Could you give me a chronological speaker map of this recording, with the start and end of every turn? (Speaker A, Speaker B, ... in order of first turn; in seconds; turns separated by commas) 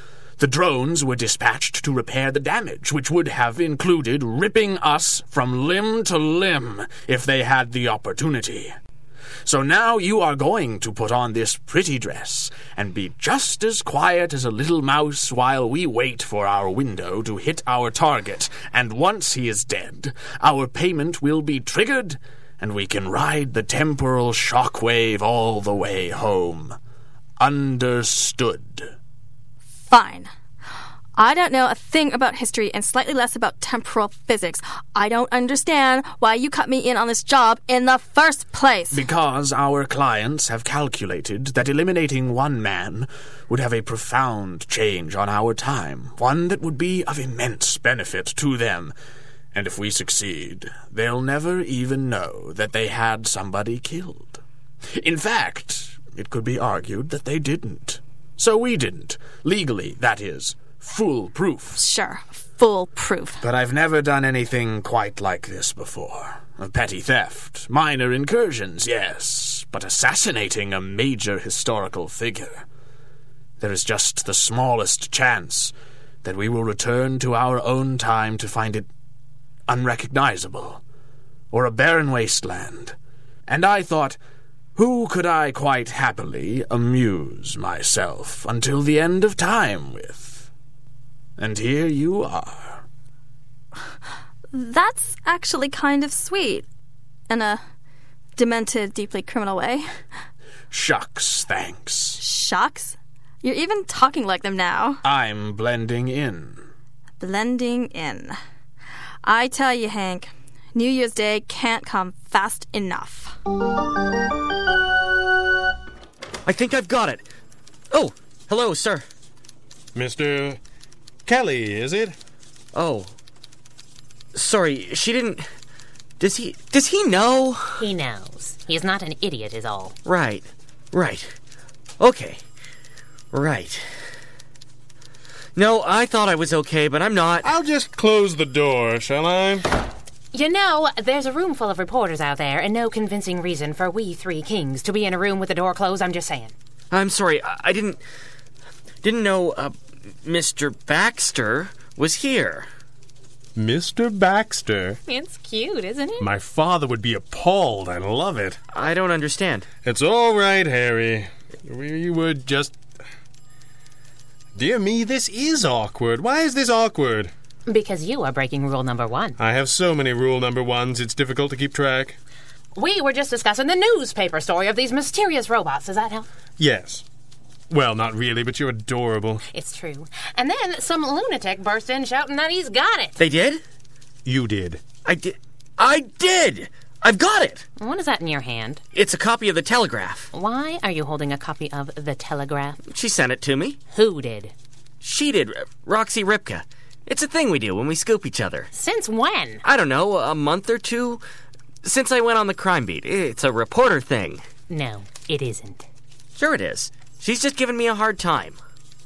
Speaker A: 0.4-8.7, Speaker A: 9.4-26.8, Speaker A: 27.4-28.9, Speaker B: 29.9-30.3, Speaker B: 31.1-39.0, Speaker A: 38.9-48.9, Speaker A: 49.5-54.4, Speaker A: 54.9-61.8, Speaker B: 61.8-63.4, Speaker A: 63.4-72.6, Speaker A: 73.6-78.9, Speaker A: 79.7-80.8, Speaker A: 81.5-82.9, Speaker A: 83.5-84.2, Speaker A: 84.8-90.5, Speaker A: 91.4-92.8, Speaker B: 94.5-96.7, Speaker B: 97.3-97.6, Speaker B: 98.3-99.8, Speaker A: 100.7-102.2, Speaker B: 102.2-105.0, Speaker A: 105.0-106.6, Speaker B: 107.2-108.4, Speaker B: 109.2-113.3, Speaker C: 116.5-117.2, Speaker C: 117.9-119.0, Speaker D: 119.9-120.6, Speaker D: 121.2-122.1, Speaker C: 122.7-123.1, Speaker C: 124.3-125.4, Speaker C: 126.2-127.8, Speaker E: 127.8-129.9, Speaker C: 130.0-131.3, Speaker C: 132.0-132.4, Speaker C: 133.3-133.8, Speaker C: 135.6-137.5, Speaker D: 137.4-139.7, Speaker E: 140.3-146.5, Speaker C: 146.9-148.0, Speaker C: 149.0-152.7, Speaker D: 153.6-155.0, Speaker E: 155.1-156.3, Speaker D: 156.2-158.6, Speaker C: 158.7-159.7, Speaker D: 159.8-162.8, Speaker D: 164.6-167.3, Speaker E: 167.7-169.4, Speaker D: 169.4-172.2, Speaker E: 172.7-176.3, Speaker D: 176.6-177.0, Speaker D: 177.7-179.4, Speaker E: 179.5-183.2, Speaker C: 183.2-183.6, Speaker D: 184.2-184.8, Speaker C: 185.0-187.7, Speaker E: 187.8-188.8, Speaker C: 188.9-190.3, Speaker E: 190.3-192.8, Speaker C: 192.9-193.8, Speaker E: 193.9-194.5, Speaker C: 195.0-198.7, Speaker E: 198.7-199.6, Speaker C: 199.6-201.2, Speaker C: 201.8-204.4, Speaker E: 204.7-205.8, Speaker C: 206.3-208.6